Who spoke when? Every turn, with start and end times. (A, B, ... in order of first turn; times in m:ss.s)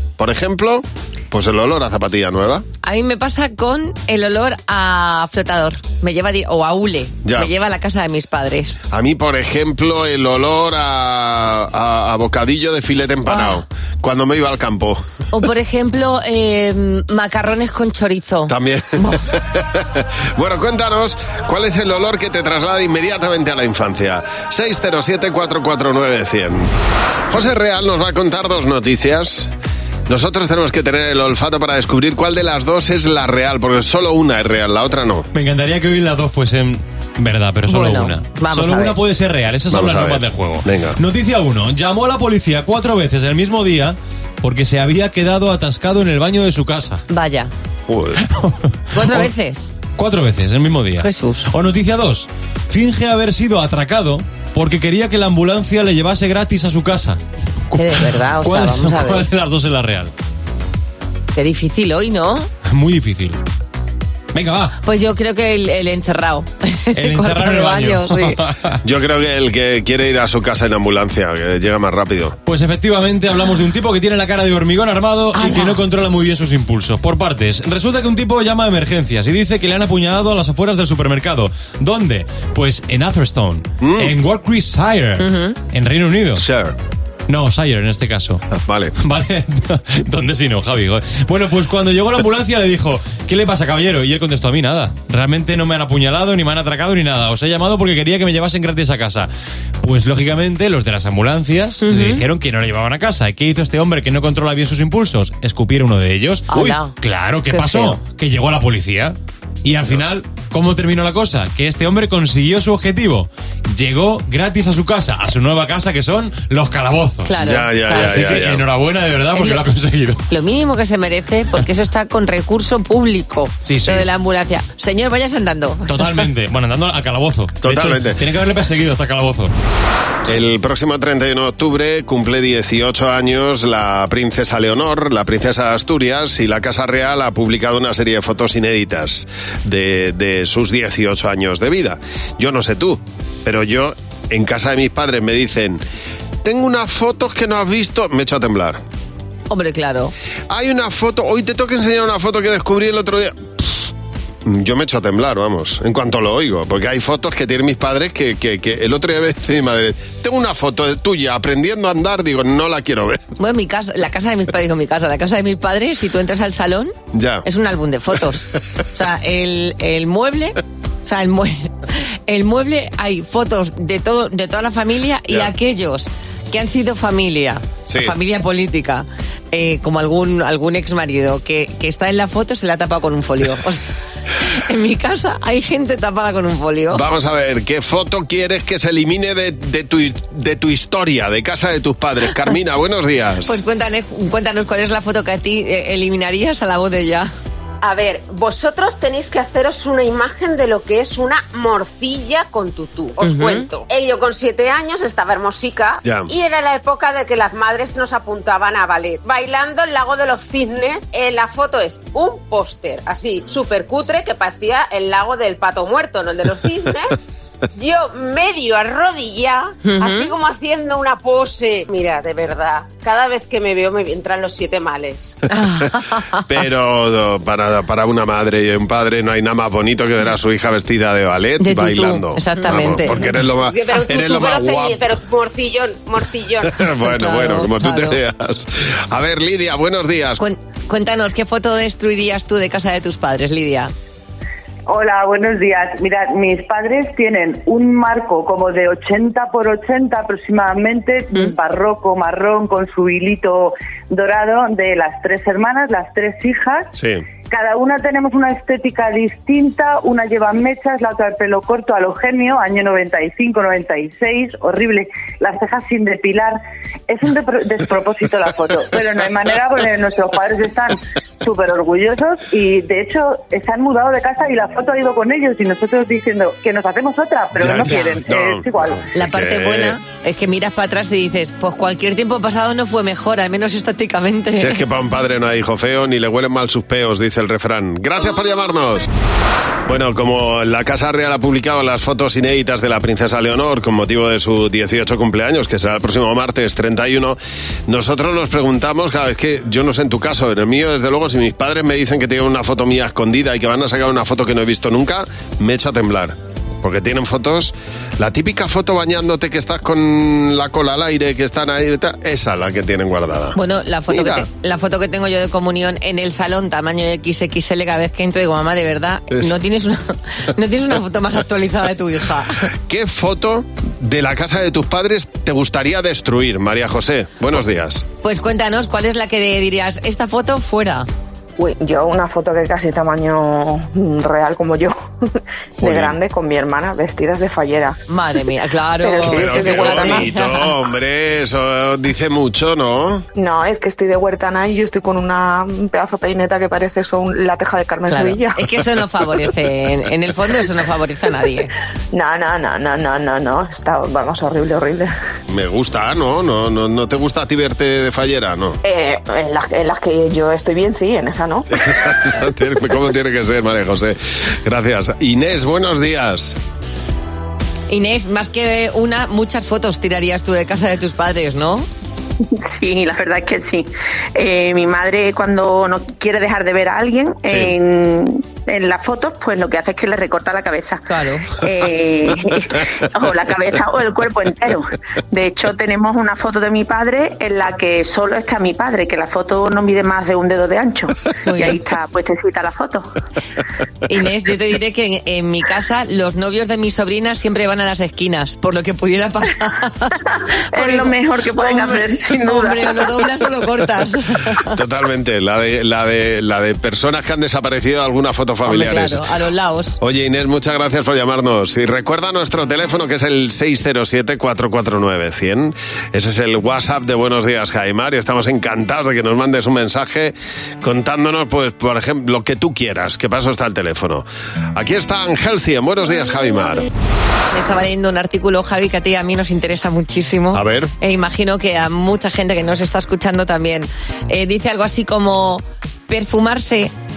0:00.2-0:02.6 A
0:02.8-0:08.8 B
0:07.2-0:07.5 A
0:08.9-0:15.0 A
0:13.3-0:13.6 B
0:15.3-0:19.2 B
0:18.5-0:26.7 A
0:27.3-0:29.5 A
0:30.1-0:35.3 A
0:35.3-0:47.0 C
0:37.7-0:39.0 B
0:39.7-0:41.0 A
0:47.1-0:47.5 B
0:47.9-0:48.2 A
0:48.2-0:49.3 C
0:48.9-0:49.7 B
0:50.0-0:57.2 C
0:51.0-0:51.5 B
0:57.7-0:59.3 B
0:57.8-1:00.1 C
1:01.3-1:02.5 B
1:02.7-1:03.4 C
1:04.3-1:04.8 C
1:04.8-1:08.4 B
1:07.0-1:08.8 C
1:08.8-1:12.4 A
1:12.5-1:26.4 C
1:15.4-1:15.8 B
1:23.8-1:24.1 A
1:25.2-1:25.6 B
1:26.4-1:26.8 A
1:27.3-1:28.4 C
1:28.5-1:29.0 A
1:29.0-1:39.3 C
1:39.8-1:57.4 C
1:41.8-1:42.2 B
1:46.5-1:46.9 B
1:47.5-1:48.0 B
1:57.2-1:58.4 B
1:57.4-1:58.6 A
1:57.9-2:00.2 C
1:59.4-1:59.6 B
2:00.3-2:06.2 B
2:03.6-2:04.1 C
2:05.9-2:09.5 C
2:07.6-2:08.2 A
2:10.3-2:25.8 A
2:26.4-2:28.8 A
2:29.5-2:30.1 B
2:30.5-2:33.9 A
2:34.5-2:43.2 A
2:43.4-3:03.8 B
2:47.1-2:47.4 A
2:57.9-2:58.2 A
3:04.4-3:07.0 B
3:06.9-3:13.6 A
3:13.5-3:17.3 B
3:17.8-3:37.1 D
3:23.2-3:23.7 B
3:26.0-3:26.3 A
3:37.7-3:45.4 D
3:39.8-3:40.3 B
3:45.5-3:46.4 B
3:46.5-3:55.0 A
3:51.6-3:53.3 B
3:53.6-3:56.8 D
3:56.6-4:00.4 A
3:57.1-3:58.2 B
4:00.4-4:03.9 B
4:04.9-4:16.9 E
4:17.0-4:17.2 A
4:17.5-4:39.0 E
4:37.6-4:40.0 A
4:37.8-4:38.2 B
4:39.1-4:44.8 B
4:44.6-4:49.1 A
4:49.9-5:13.6 A
5:13.6-5:22.6 B
5:14.1-5:14.5 A
5:22.9-5:28.0 A
5:28.2-5:31.1 B
5:31.6-5:35.0 F
5:35.8-5:38.0 F
5:35.8-5:36.2 A
5:38.1-5:40.7 B
5:39.0-5:40.3 F
5:39.3-5:43.2 A
5:43.4-5:48.6 F
5:48.1-5:51.7 B
5:52.1-5:55.1 F
5:55.5-5:58.8 A
5:58.8-6:01.8 F
6:01.7-6:06.6 A
6:07.9-6:11.9 B
6:12.6-6:33.1 G
6:17.5-6:17.7 A
6:21.1-6:21.5 B
6:31.4-6:31.8 B
6:34.1-6:40.1 B
6:40.7-6:42.9 G
6:40.8-6:44.7 B
6:44.7-6:49.2 A
6:48.6-6:50.0 B
6:50.0-7:06.9 A
7:07.5-7:16.9 B
7:10.5-7:10.9 A